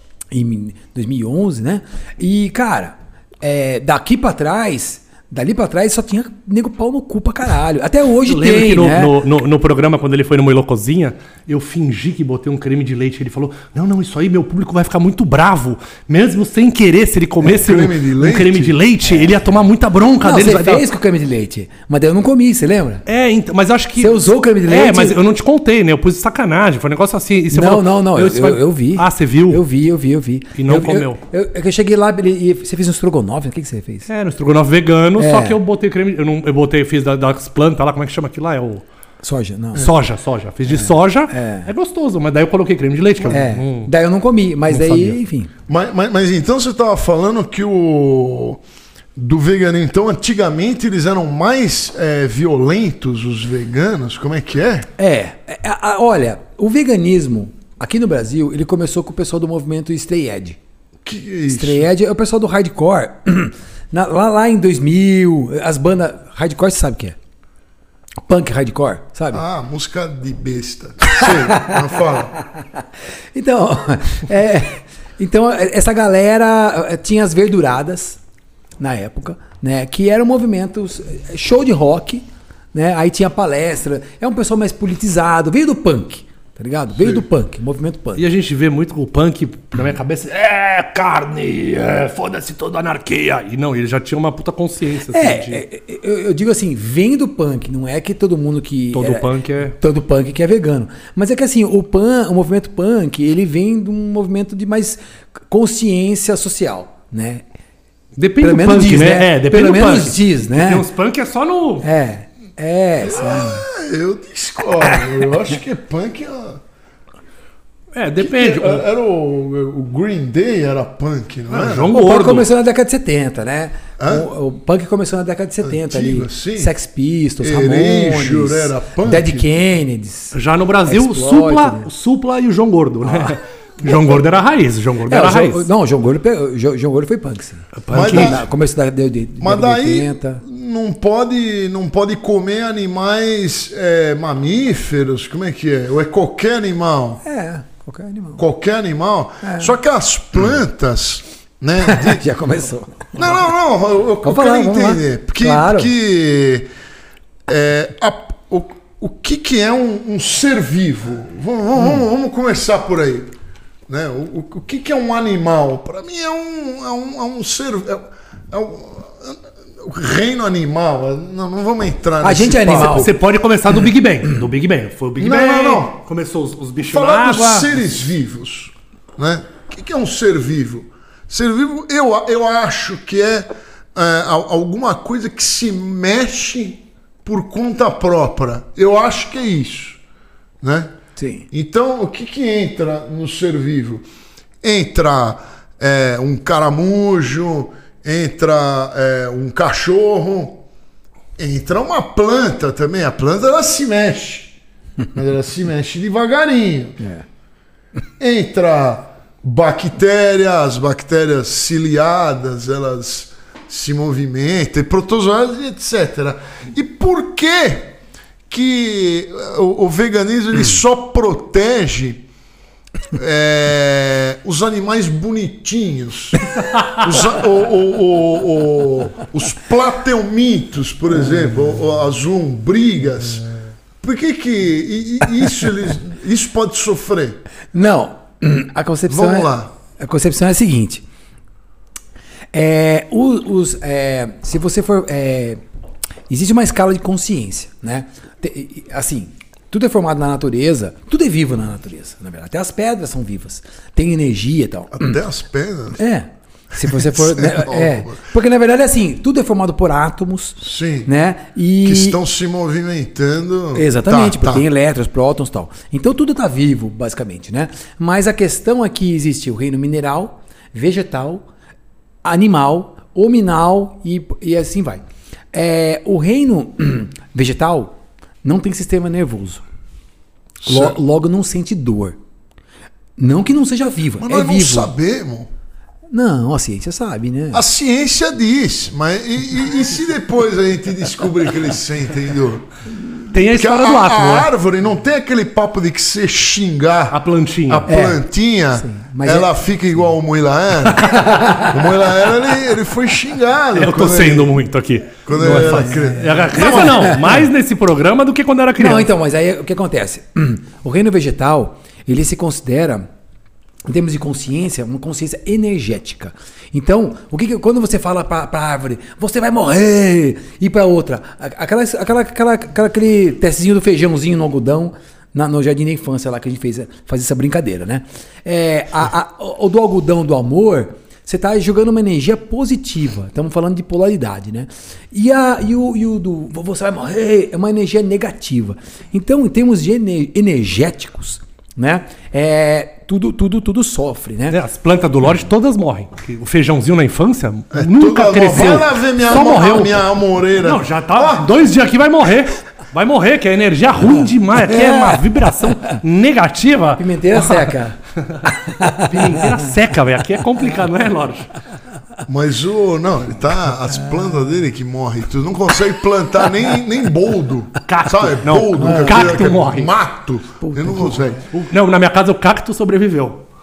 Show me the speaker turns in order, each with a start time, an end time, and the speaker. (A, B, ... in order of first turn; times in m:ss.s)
0:00.3-0:09.2 A
0:08.2-0:20.8 B
0:17.4-0:18.8 C
0:20.2-0:23.0 A
0:23.1-0:29.6 B
0:24.0-0:25.2 A
0:27.5-0:34.1 A
0:30.6-0:31.2 B
0:34.1-0:38.8 B
0:35.2-0:35.6 A
0:39.2-0:39.9 A
0:39.8-0:43.9 B
0:40.7-0:41.7 A
0:43.3-0:45.5 A
0:44.7-0:45.2 B
0:45.7-0:48.6 C
0:49.2-0:54.9 C
0:55.0-1:00.6 A
1:01.0-1:01.9 C
1:01.5-1:07.2 A
1:08.3-1:09.4 A
1:09.3-1:12.4 C
1:11.1-1:11.8 A
1:13.4-1:18.2 A
1:18.8-1:28.2 A
1:28.2-1:35.6 B
1:35.1-1:47.4 A
1:38.9-1:39.8 B
1:48.2-1:51.9 B
1:48.4-1:50.9 A
1:51.8-1:53.6 A
1:53.0-1:56.6 C
1:57.9-1:58.8 B
1:58.2-2:01.9 C
2:01.5-2:02.5 B
2:01.9-2:10.4 A
2:04.0-2:04.3 C
2:05.6-2:06.7 C
2:07.4-2:09.5 C
2:10.3-2:15.7 B
2:10.9-2:11.9 A
2:13.0-2:13.4 A
2:15.1-2:20.4 A
2:17.8-2:18.4 B
2:17.9-2:18.5 C
2:19.4-2:27.2 C
2:27.2-2:28.4 A
2:28.4-2:32.2 C
2:29.4-2:29.7 A
2:31.8-2:33.3 A
2:33.1-2:36.7 C
2:34.2-2:35.9 A
2:37.5-2:43.3 C
2:43.9-2:53.1 C
2:52.2-2:53.1 A
2:52.7-2:57.7 B
2:55.2-2:56.0 C
2:56.8-3:10.0 C
3:10.6-3:10.9 C
3:11.2-3:11.4 A
3:11.5-3:14.0 C
3:14.6-3:20.6 C
3:21.4-3:24.5 C
3:25.1-3:27.0 C
3:28.2-3:38.0 C
3:38.5-3:42.2 C
3:43.1-3:53.5 C
3:46.7-3:47.0 B
3:54.0-3:57.4 C
3:57.7-4:01.0 A
3:59.1-3:59.7 C
4:02.5-4:05.6 A
4:06.3-4:15.2 A
4:15.0-4:16.0 C
4:16.0-4:22.2 A
4:16.7-4:18.2 C
4:20.6-4:21.1 C
4:21.8-4:24.6 C
4:23.8-4:31.5 A
4:32.2-4:39.6 A
4:40.6-4:41.0 C
4:40.6-4:42.2 A
4:43.2-4:44.9 A
4:44.2-4:45.5 C
4:46.1-4:47.6 A
4:47.5-4:52.7 C
4:53.3-4:54.5 B
4:53.4-5:01.2 C
4:57.1-4:57.9 B
4:57.9-4:59.5 A
5:01.0-5:01.8 A
5:01.7-5:04.6 C
5:03.8-5:09.1 B
5:05.2-5:07.2 C
5:05.4-5:07.4 A
5:08.8-5:13.1 A
5:13.9-5:44.6 A
5:44.5-5:50.0 B
5:47.7-5:51.5 C
5:50.6-5:57.7 B
5:54.7-5:55.2 A
5:57.0-5:59.7 A
5:59.0-6:01.5 B
6:02.3-6:11.4 C
6:07.8-6:09.9 B
6:08.8-6:09.4 A
6:10.6-6:11.4 A
6:11.5-6:13.4 B